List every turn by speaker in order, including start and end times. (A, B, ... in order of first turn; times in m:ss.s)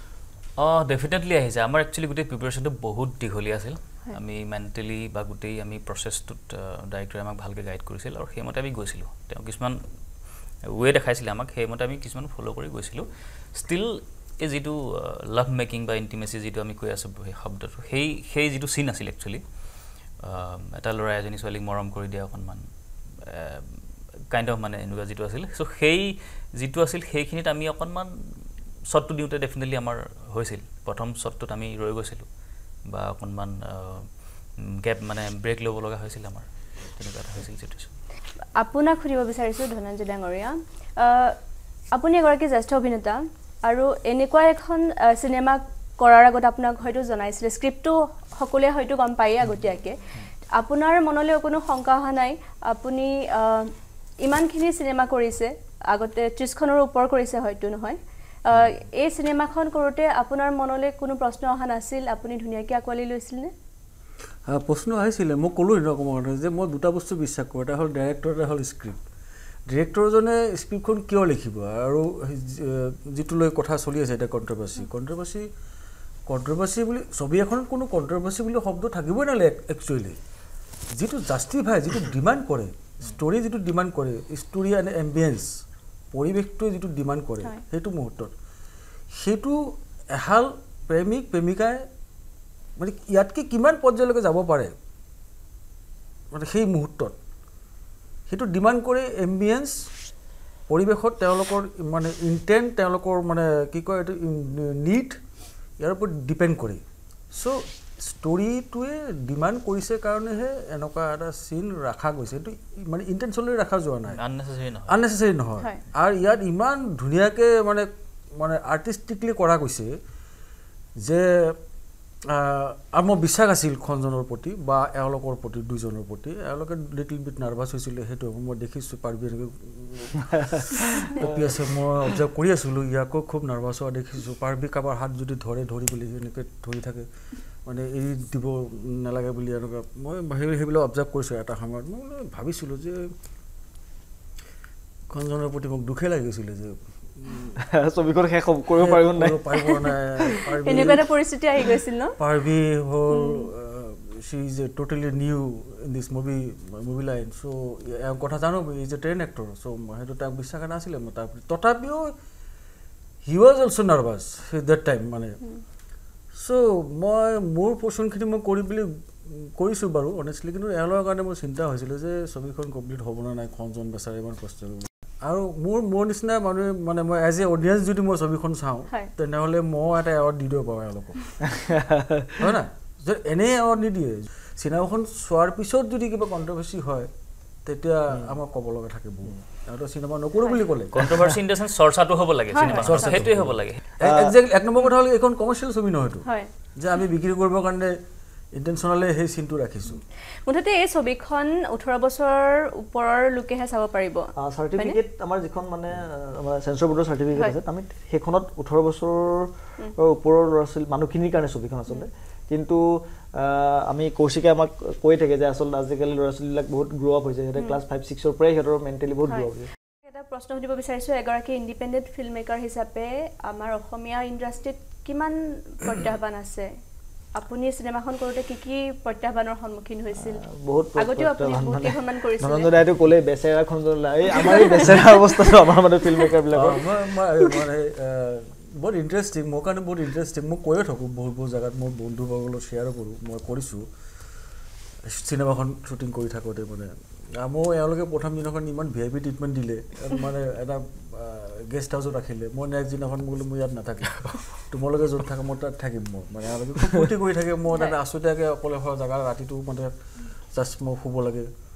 0:00.6-0:09.8 A
0:10.6-0:19.4 A
0:20.2-0:23.8 A
0:24.3-0:32.3 A
0:32.8-0:37.9 A
0:38.6-0:41.4 B
0:41.9-1:03.5 B
1:04.4-1:09.0 C
1:09.7-1:15.5 C
1:16.3-1:20.2 C
1:20.9-1:25.6 C
1:26.1-1:28.3 C
1:29.1-1:31.9 C
1:32.8-1:34.7 C
1:36.3-1:37.2 C
1:38.3-1:39.9 C
1:40.7-1:45.2 C
1:45.8-1:54.2 C
1:54.0-1:55.0 A
1:54.9-1:59.9 C
2:01.0-2:01.6 C
2:02.2-2:17.1 C
2:11.0-2:11.5 D
2:17.6-2:23.1 C
2:25.1-2:27.6 C
2:27.6-2:29.4 D
2:28.8-2:31.1 C
2:30.6-2:32.2 B
2:32.2-2:42.1 C
2:33.1-2:33.5 B
2:43.2-2:45.4 C
2:46.3-3:01.6 C
3:01.5-3:02.3 D
3:02.4-3:07.1 C
3:07.6-3:11.1 C
3:10.9-3:13.8 A
3:12.5-3:13.2 B
3:12.6-3:18.0 C
3:14.0-3:14.4 D
3:16.2-3:16.5 B
3:18.5-3:20.0 C
3:20.4-3:25.0 B
3:24.4-3:39.7 D
3:37.6-3:37.8 B
3:40.0-3:46.7 B
3:47.4-3:50.4 B
3:50.2-3:57.2 D
3:51.0-3:52.7 B
3:54.3-3:54.9 B
3:56.5-4:03.8 C
4:05.0-4:19.9 C
4:17.7-4:18.0 B
4:20.5-4:21.5 C